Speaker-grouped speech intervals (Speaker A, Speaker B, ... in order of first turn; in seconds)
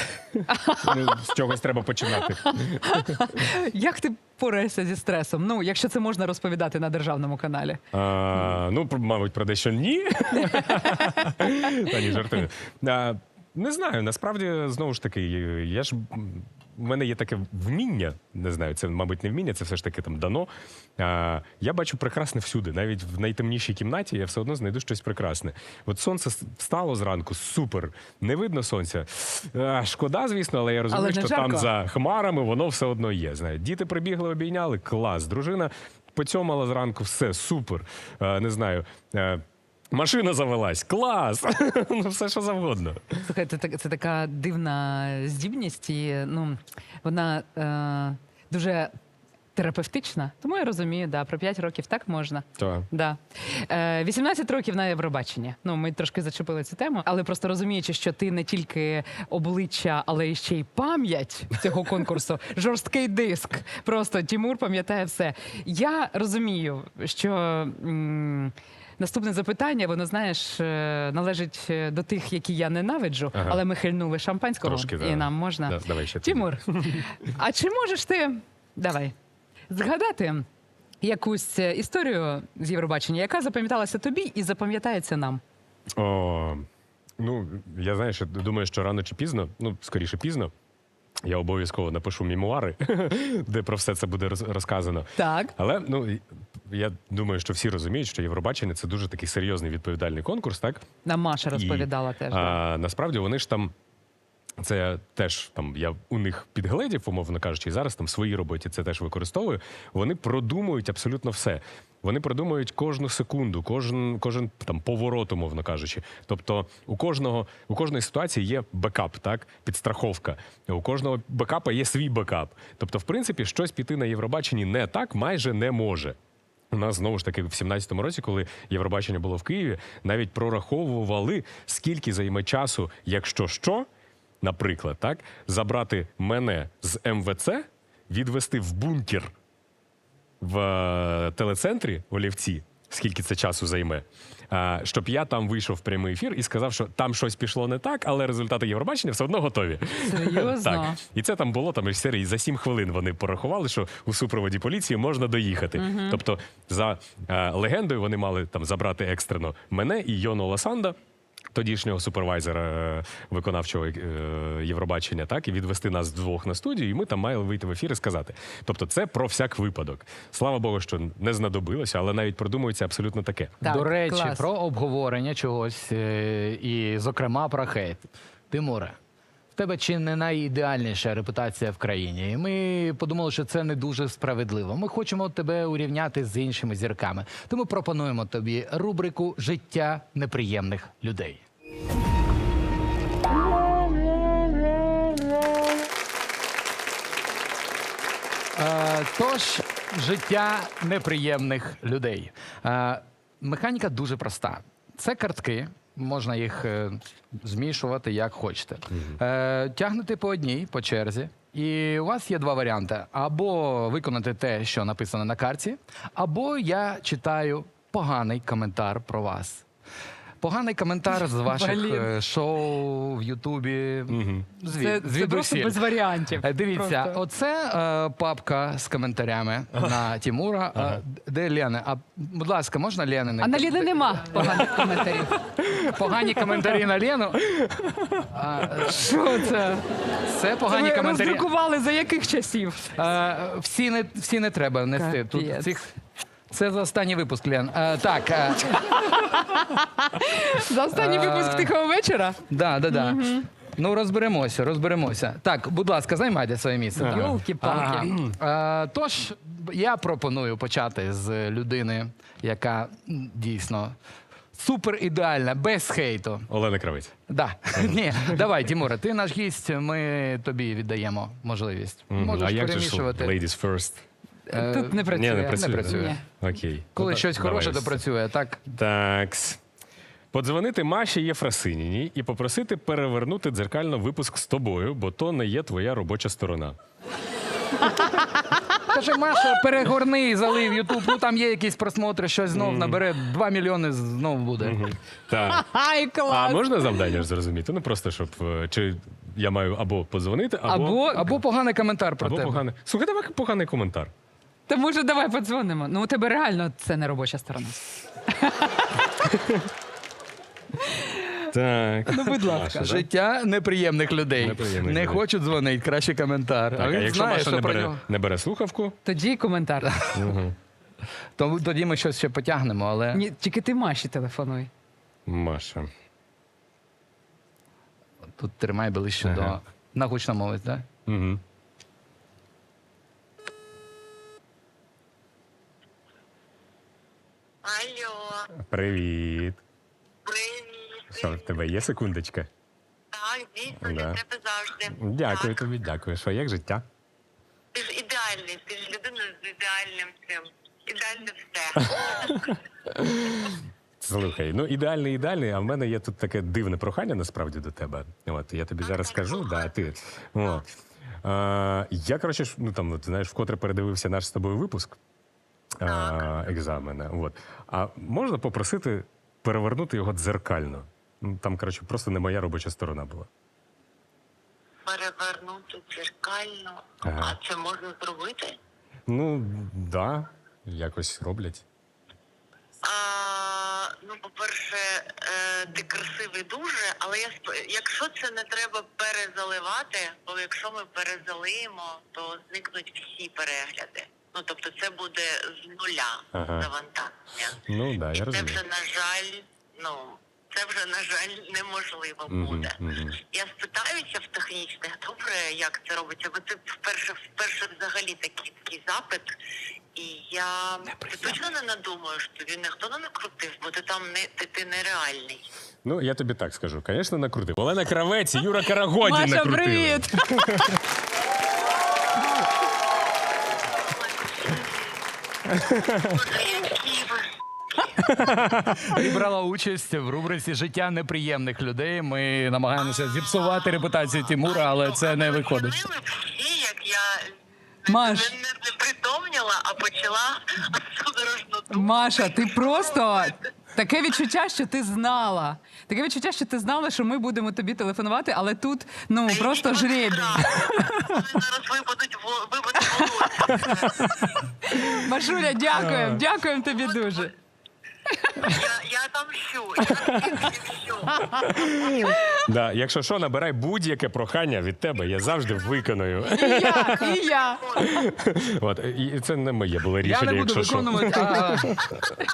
Speaker A: 0.3-3.5, 7.9-43.2, 52.6-52.9, 73.3-73.6, 74.6-77.0, 86.0-86.7, 87.2-90.5, 91.2-100.8, 101.5-103.7, 104.6-126.2, 126.7-133.9, 134.4-139.3, 140.4-161.0, 161.5-173.6, 224.1-224.5, 237.6-238.0, 257.0-257.4, 257.9-258.3, 266.5-267.2, 267.8-268.4, 272.1-274.0, 275.1-278.0, 278.7-279.6, 280.3-286.8, 292.5-293.0, 294.6-295.7, 296.3-301.4, 302.2-304.1, 309.3-309.7, 311.5-313.0, 314.4-315.2, 316.7-319.0, 320.1-320.6, 325.3-325.9, 329.2-329.6, 331.1-331.4, 338.6-339.6, 341.1-342.5, 343.8-344.2, 345.0-346.8, 352.3-360.7, 361.2-365.0, 365.8-373.3, 377.1-377.4, 379.1-381.6, 396.3-396.7, 397.7-398.6, 402.3-403.2, 415.9-420.8, 425.7-426.2, 428.0-429.0, 455.9-456.2, 459.9-460.4, 461.5-467.1, 467.8-472.0
Speaker B: 0.5-1.0, 2.1-7.8, 10.3-11.9, 30.9-31.7, 43.3-48.9, 49.6-79.2, 79.7-80.5, 81.0-85.4, 95.2-95.5, 101.1-102.6, 150.0-151.0, 155.8-156.2, 173.6-174.5, 221.4-222.1, 224.7-227.2, 233.4-235.4, 238.8-239.8, 240.7-243.0, 244.9-245.8, 248.8-253.5, 257.0-258.1, 274.5-276.2, 287.8-288.6, 295.4-297.0, 300.7-301.3, 304.7-309.1, 310.9-311.5, 312.1-313.0, 319.1-319.9, 323.1-324.7, 419.0-420.7, 437.9-438.3, 441.7-451.2, 452.9-453.3, 454.6-457.3, 458.2-458.6, 462.1-462.4, 466.3-467.9
Speaker C: 173.6-179.0, 179.6-191.4, 198.6-219.7, 220.4-235.1, 235.8-237.4, 238.3-241.5, 243.0-245.9, 246.5-248.9, 250.9-251.7, 252.5-264.0, 264.5-266.5, 267.3-273.3, 274.5-276.2, 277.0-278.6, 288.9-294.8, 301.1-302.6, 312.8-318.0, 320.0-320.3, 321.4-323.2, 328.4-330.9, 428.9-435.8, 470.0-471.8
Speaker D: 337.6-338.5, 340.2-341.5, 343.1-345.6, 347.7-352.5, 358.8-359.7, 365.8-366.4, 374.9-378.6, 382.8-397.6, 398.1-409.3, 409.9-415.5, 423.8-425.0, 425.9-427.9, 432.9-437.3, 437.9-443.5, 449.3-454.2, 456.7-457.3, 458.4-462.1